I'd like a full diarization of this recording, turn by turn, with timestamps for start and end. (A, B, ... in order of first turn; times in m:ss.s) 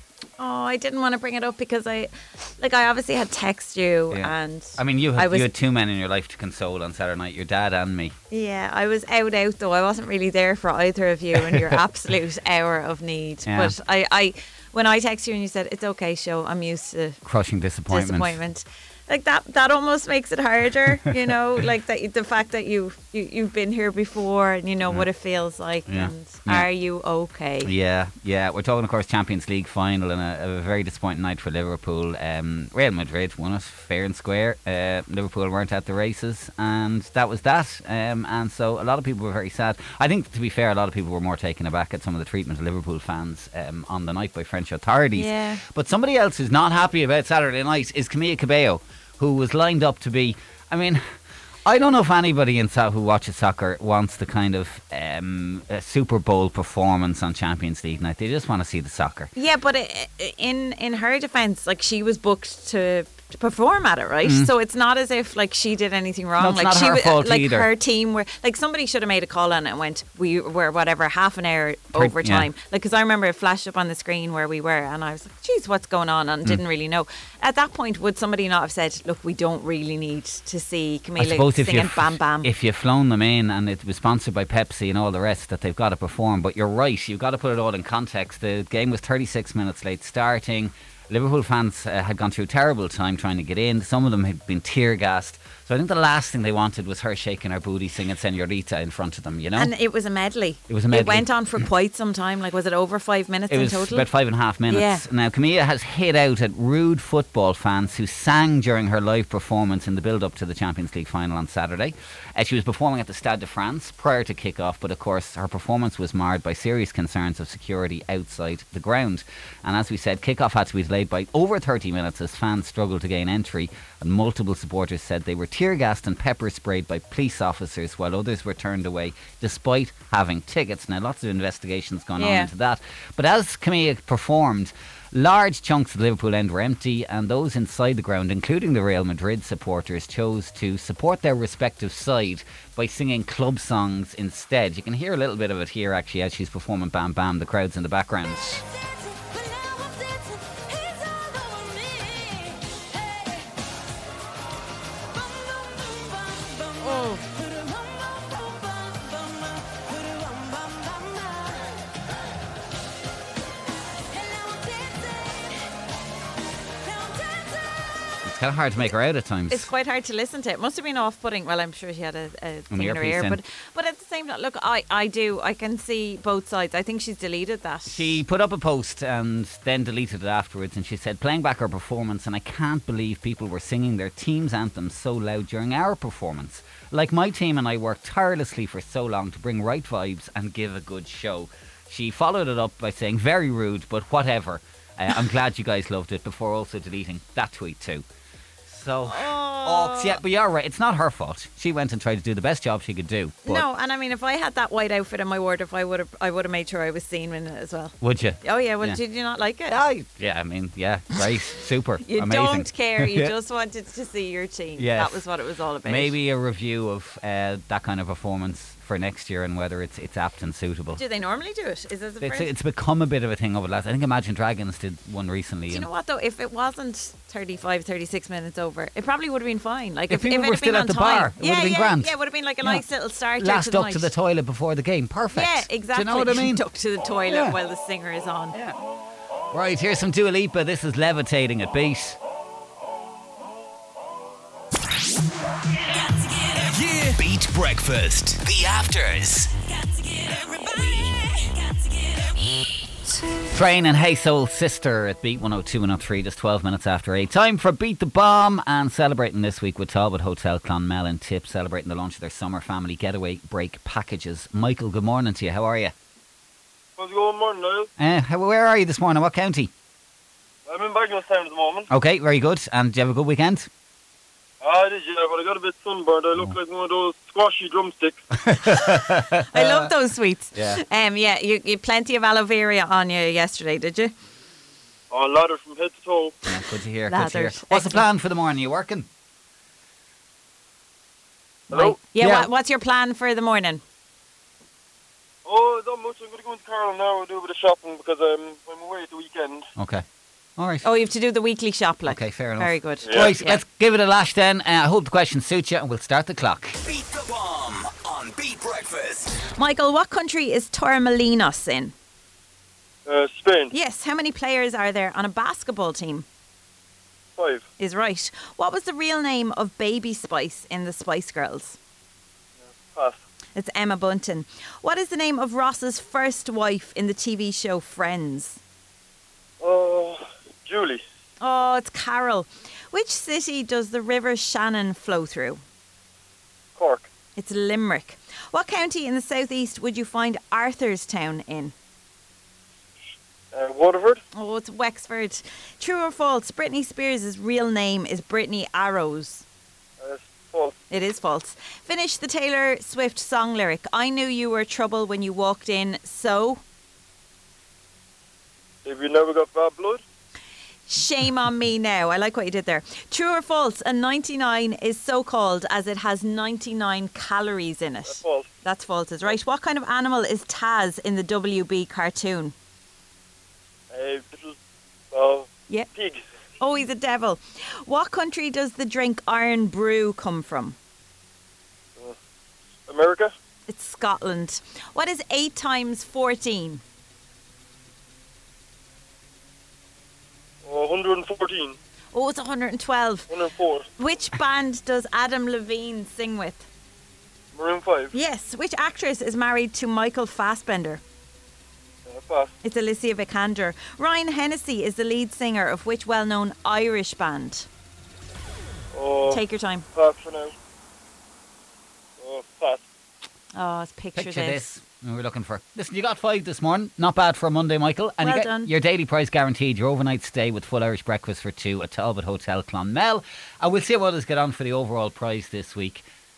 0:00.4-0:05.5 A
0:04.1-0:08.2 B
0:08.3-0:17.2 A
0:11.4-0:11.8 B
0:13.4-0:13.8 B
0:17.2-0:18.4 B
0:17.9-0:27.7 A
0:25.9-0:26.7 B
0:27.6-0:51.1 B
0:45.1-0:45.6 A
0:51.6-0:59.3 B
0:59.4-1:22.5 A
1:04.2-1:04.5 B
1:06.4-1:07.7 B
1:11.9-1:12.5 B
1:21.2-1:39.7 B
1:39.6-1:44.1 A
1:40.7-1:41.6 B
1:43.5-2:28.6 B
1:44.7-1:45.0 A
2:12.2-2:12.5 A
2:36.8-2:37.2 A
2:48.2-2:49.7 B
2:49.5-2:58.2 A
2:52.7-2:53.4 B
2:57.9-3:18.0 B
3:18.7-3:23.6 B
3:19.0-3:20.2 A
3:23.4-3:29.8 A
3:28.0-3:29.0 B
3:29.7-3:33.3 B
3:32.0-3:36.2 A
3:34.8-3:35.2 B
3:35.8-3:41.0 B
3:41.0-3:42.5 A
3:42.2-3:45.9 B
3:45.7-3:54.1 A
3:50.1-3:52.8 B
3:53.4-3:56.6 B
3:55.3-3:58.6 A
3:57.3-3:57.6 B
3:58.5-3:58.8 B
3:59.5-4:02.2 B
4:06.5-4:09.5 C
4:08.5-4:09.3 B
4:13.5-4:25.9 B
4:27.0-4:27.9 D
4:28.0-4:29.7 B
4:30.6-4:31.9 D
4:31.9-4:33.7 B
4:34.6-4:38.2 D
4:38.4-4:39.9 B
4:38.7-4:44.1 A
4:40.5-4:40.8 B
4:45.1-4:46.4 D
4:46.4-4:49.1 B
4:47.1-4:48.0 A
4:51.7-4:52.0 D
4:51.7-4:53.8 A
4:51.8-4:52.5 B
4:55.4-4:59.7 D
4:59.8-5:00.0 B
5:00.6-5:00.9 B
5:00.8-5:03.6 A
5:02.1-5:06.8 B
5:03.0-5:03.4 D
5:06.8-5:09.4 C
5:09.6-5:11.9 A
5:13.1-5:13.7 D
5:13.7-5:16.3 A
5:17.4-5:17.6 D
5:17.8-5:21.8 A
5:22.6-5:23.2 D
5:23.6-5:28.6 A
5:29.6-5:31.0 D
5:31.4-5:35.6 A
5:36.8-5:37.1 D
5:37.4-5:41.7 A
5:43.5-5:44.2 D
5:44.3-5:49.4 A
5:50.0-5:50.8 D
5:50.9-5:56.6 A
5:58.8-6:00.0 D
6:00.9-6:12.5 A
6:08.1-6:08.5 D
6:13.9-6:14.6 D
6:15.1-6:16.2 D
6:16.6-6:20.8 A
6:22.9-6:23.3 D
6:23.7-6:26.8 A
6:30.6-6:31.8 D
6:32.1-6:33.3 A
6:33.3-6:33.9 D
6:34.0-6:36.7 A
6:37.5-6:38.1 D
6:38.1-6:41.0 A
6:42.1-6:42.5 D
6:42.6-6:47.7 A
6:48.9-6:49.4 D
6:49.3-6:49.9 A
6:49.9-6:50.5 D
6:52.2-6:52.8 D
6:53.6-6:54.6 A
6:54.1-7:06.0 B
6:58.2-6:58.7 A